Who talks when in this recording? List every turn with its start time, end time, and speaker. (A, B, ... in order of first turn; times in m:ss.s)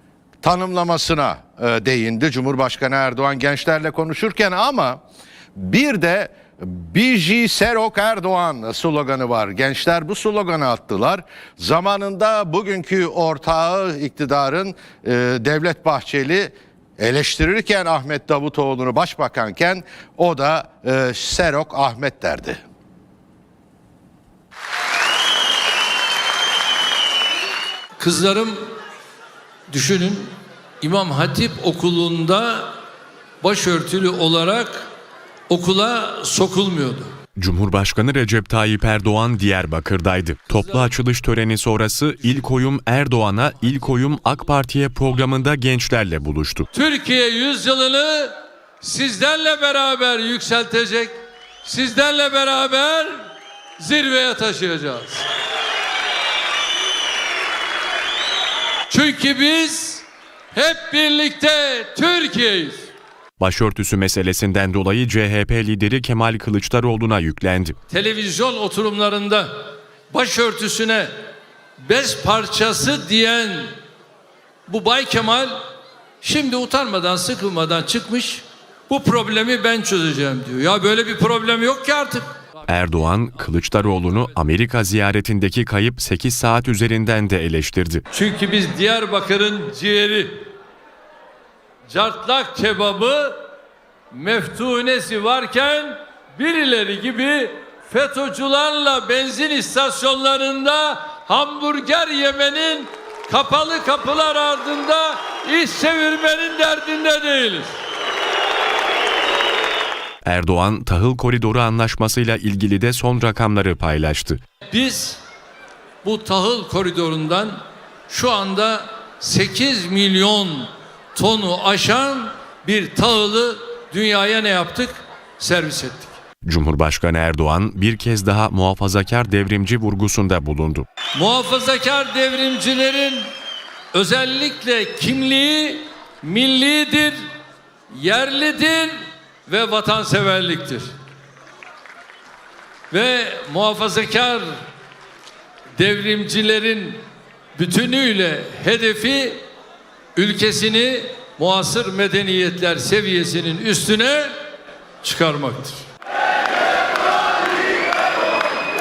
0:00.4-0:05.0 A
0:05.6-0:22.6 A
0:28.0-0:28.6 B
0:29.7-0:32.7 B
0:33.4-0:34.9 B
0:35.5-0:37.1 B
0:37.4-0:46.7 C
0:40.6-0:40.9 B
0:46.7-0:53.2 B
0:53.8-0:55.3 B
0:58.9-1:02.9 B
1:03.4-1:07.8 C
1:07.9-1:09.5 B
1:10.1-1:11.1 B
1:11.8-1:13.7 B
1:14.7-1:15.6 B
1:16.2-1:22.3 B
1:22.7-1:28.0 C
1:28.1-1:30.5 B
1:31.9-1:33.4 B
1:34.1-1:47.8 B
1:50.2-1:54.4 C
1:54.7-1:55.2 B
1:56.0-2:06.2 B
2:06.4-2:10.9 C
2:11.2-2:13.2 B
2:13.9-2:17.2 B
2:17.9-2:19.0 B
2:19.5-2:20.9 B
2:22.9-2:24.5 B
2:25.8-2:27.0 B
2:27.6-2:29.5 B
2:30.2-2:34.3 B
2:35.0-2:35.8 B